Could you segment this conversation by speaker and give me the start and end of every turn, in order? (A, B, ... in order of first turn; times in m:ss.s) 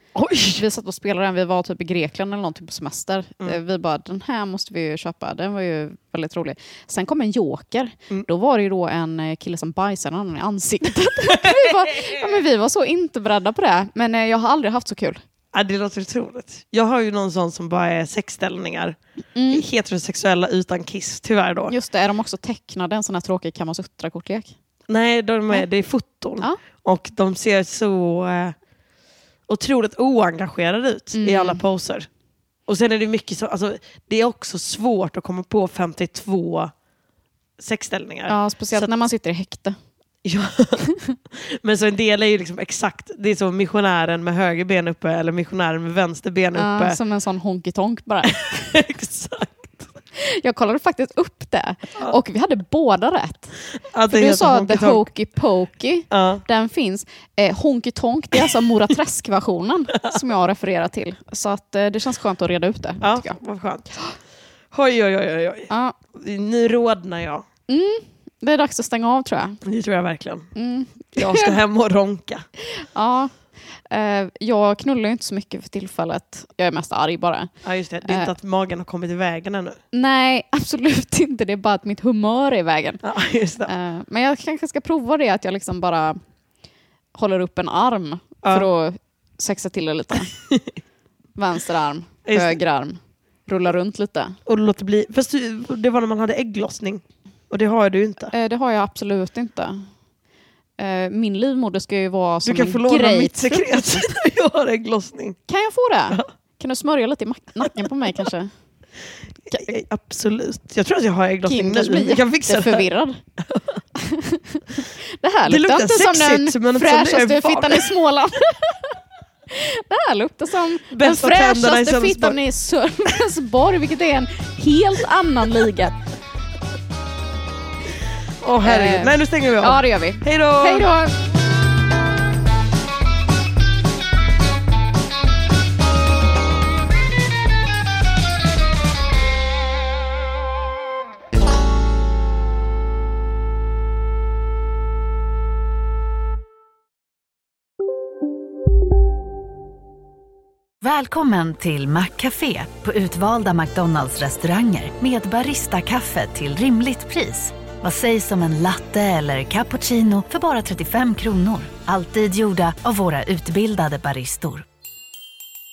0:00.1-0:00.6 A
0:00.6-0:15.2 B
0:11.2-0:12.2 A
0:15.5-0:19.0 A
0:19.3-0:19.6 B
0:19.5-0:21.7 A
0:21.7-0:24.5 B
0:24.9-0:28.6 A
0:29.5-0:32.1 A
0:31.1-0:31.6 B
0:32.7-0:36.7 A
0:37.6-0:38.9 A
0:38.3-0:39.8 B
0:40.2-0:47.0 A
0:40.8-0:41.1 B
0:46.5-0:48.8 B
0:48.4-0:49.8 A
0:50.2-0:53.6 B
0:53.9-0:55.1 A
0:54.1-1:03.3 B
0:56.1-0:56.4 A
1:03.0-1:04.0 A
1:04.7-1:07.4 A
1:05.7-1:05.9 B
1:07.7-1:09.6 B
1:09.6-1:10.5 A
1:10.5-1:11.6 B
1:11.2-1:12.4 A
1:12.9-1:13.3 B
1:13.9-1:17.5 B
1:17.6-1:19.8 A
1:18.0-1:18.3 B
1:19.9-1:23.0 B
1:23.0-1:23.7 A
1:23.6-1:26.2 B
1:27.2-1:30.3 B
1:31.4-1:34.4 B
1:32.2-1:32.6 A
1:34.4-1:38.3 A
1:38.3-1:39.8 B
1:40.8-1:44.0 B
1:42.4-1:45.4 A
1:45.5-1:48.5 B
1:47.6-1:47.9 A
1:49.5-1:49.7 B
1:49.5-1:52.9 A
1:51.4-1:53.2 B
1:53.5-1:53.8 A
1:54.0-1:58.9 B
1:55.4-1:57.9 A
1:59.5-2:05.9 B
2:00.9-2:02.4 A
2:08.4-2:10.9 A
2:08.6-2:11.1 B
2:30.8-2:44.7 C